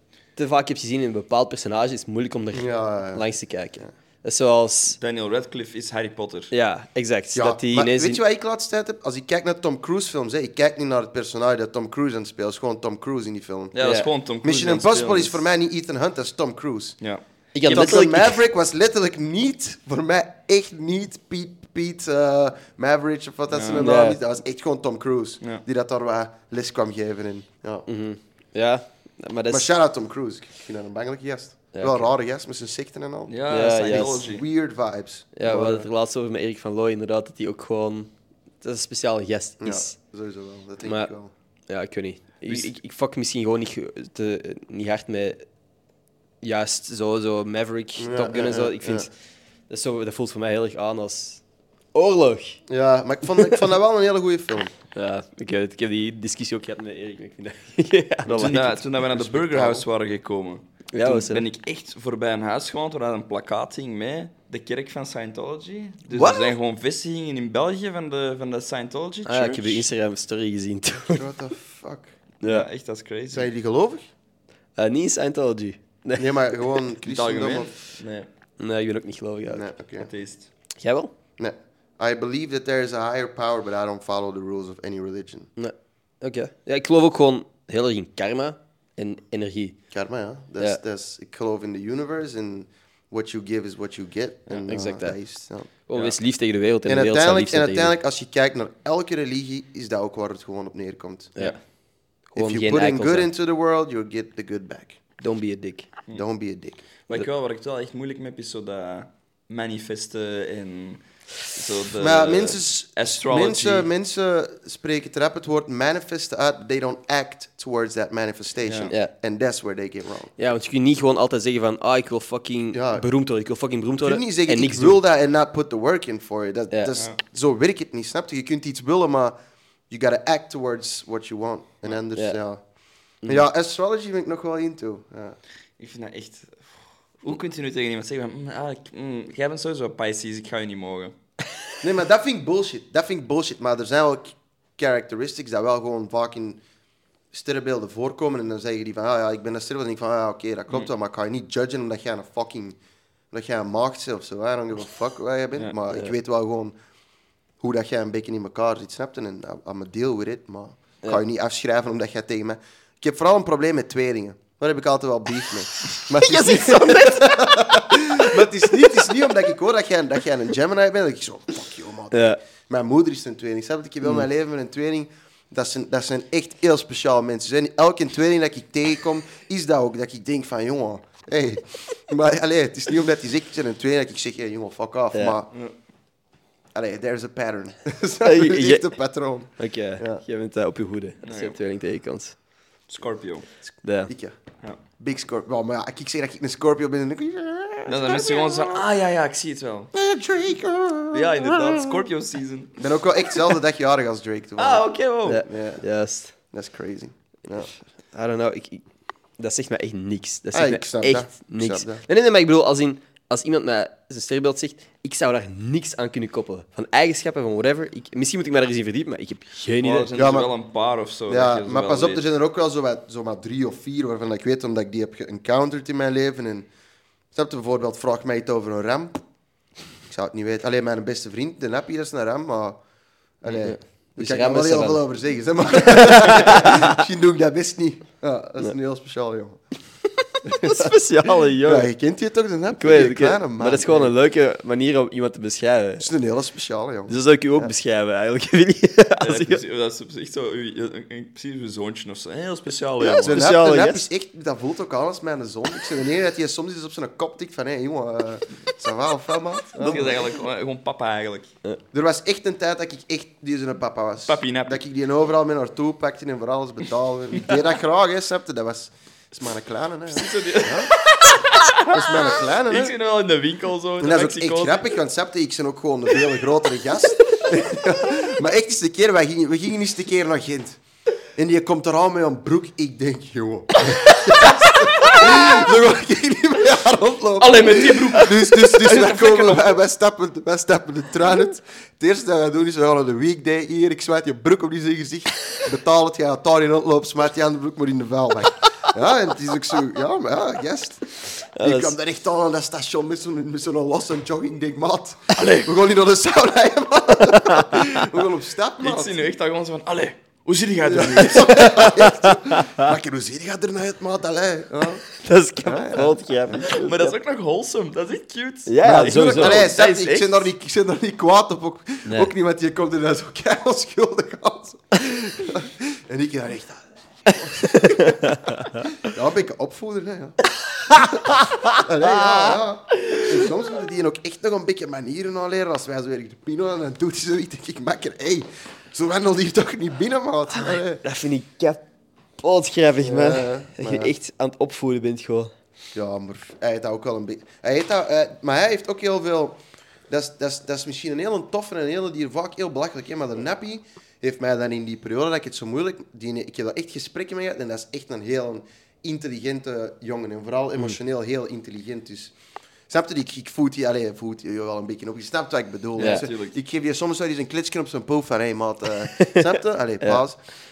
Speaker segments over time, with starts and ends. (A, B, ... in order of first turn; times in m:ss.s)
0:00.4-0:05.0 A
0:02.5-0:03.2 B
0:05.0-0:06.5 C
0:06.5-0:08.2 A
0:07.3-0:13.8 B
0:13.7-0:15.4 C
0:13.8-0:14.1 A
0:14.4-0:17.0 B
0:17.0-0:17.9 C
0:17.6-0:18.4 A
0:17.7-0:27.9 B
0:23.5-0:23.9 C
0:23.7-0:24.2 A
0:27.9-0:29.7 A
0:29.5-0:35.9 B
0:31.7-0:32.1 A
0:33.3-0:34.4 C
0:33.5-0:34.2 A
0:35.4-0:40.0 A
0:39.6-0:41.3 B
0:40.8-0:41.1 A
0:41.7-0:45.4 A
0:46.4-0:49.1 A
0:48.0-0:49.1 B
0:49.7-0:51.4 A
0:51.9-0:52.6 A
0:52.7-0:54.7 B
0:55.0-0:58.8 A
0:58.3-1:09.8 C
0:58.3-0:59.8 B
1:00.9-1:01.4 A
1:06.2-1:06.5 B
1:09.3-1:11.3 A
1:11.1-1:12.1 B
1:12.4-1:12.7 A
1:12.4-1:13.5 C
1:13.3-1:14.1 B
1:14.8-1:16.7 A
1:16.2-1:17.7 B
1:17.0-1:18.3 C
1:18.6-1:19.7 A
1:19.5-1:20.1 B
1:20.0-1:20.5 C
1:20.8-1:21.1 A
1:21.4-1:25.5 B
1:25.6-1:29.8 A
1:29.9-1:35.7 B
1:34.6-1:35.2 A
1:35.9-1:38.0 A
1:36.9-1:41.4 B
1:42.3-1:43.3 A
1:42.4-1:45.0 B
1:45.2-1:45.9 A
1:46.1-1:46.8 B
1:47.1-1:53.9 C
1:52.0-2:00.3 B
1:58.6-1:58.9 C
2:00.4-2:05.0 A
2:02.7-2:03.1 B
2:04.0-2:09.4 B
2:09.9-2:12.6 B
2:13.3-2:15.4 B
2:15.8-2:16.7 C
2:17.2-2:21.2 C
2:21.8-2:26.6 B
2:27.3-2:32.8 B
2:33.3-2:36.8 B
2:37.6-3:05.5 B
2:46.1-2:49.1 A
2:52.1-2:52.4 A
3:06.7-3:10.2 B
3:08.2-3:08.9 A
3:09.6-3:12.4 A
3:11.2-3:11.6 C
3:12.9-3:13.5 C
3:13.8-3:14.1 A
3:14.1-3:14.4 B
3:15.0-3:18.8 B
3:17.9-3:19.9 C
3:19.9-3:21.8 B
3:21.1-3:22.8 C
3:22.8-3:25.8 B
3:24.6-3:25.5 C
3:25.2-3:26.3 A
3:26.5-3:27.7 B
3:28.1-3:28.8 A
3:29.4-3:40.1 A
3:30.5-3:32.0 B
3:39.8-3:42.2 C
3:40.1-3:40.5 B
3:41.3-3:46.7 B
3:47.3-3:49.2 B
3:50.1-3:52.8 B
3:53.4-3:59.6 B
3:53.6-3:55.0 A
3:55.8-3:57.0 A
4:00.4-4:00.9 B
4:00.4-4:01.9 A
4:01.6-4:04.1 B
4:02.8-4:06.1 A
4:06.0-4:07.7 B
4:07.1-4:09.6 A
4:09.2-4:13.4 C
4:13.0-4:20.2 B
4:13.2-4:14.0 A
4:19.8-4:21.5 C
4:19.8-4:20.1 A
4:21.9-4:30.9 B
4:24.3-4:24.8 C
4:30.1-4:34.9 C
4:31.9-4:33.0 B
4:34.0-4:40.8 B
4:41.4-5:09.2 B
4:44.2-4:45.2 C
4:47.4-4:49.8 C
5:01.6-5:02.0 A
5:05.4-5:05.7 C
5:07.4-5:07.8 A
5:08.8-5:11.9 C
5:10.8-5:15.0 B
5:11.2-5:12.9 A
5:15.2-5:17.2 A
5:15.6-5:16.7 B
5:16.6-5:20.5 C
5:18.7-5:19.7 A
5:18.8-5:30.4 B
5:22.0-5:22.3 A
5:27.3-5:28.8 A
5:30.8-5:33.2 A
5:31.8-5:41.0 B
5:41.0-5:41.8 A
5:42.4-5:45.5 A
5:43.0-5:44.1 B
5:45.9-5:49.6 B
5:50.1-6:02.4 B
6:02.9-6:10.4 B
6:06.0-6:06.6 C
6:06.0-6:06.3 A
6:09.1-6:10.2 A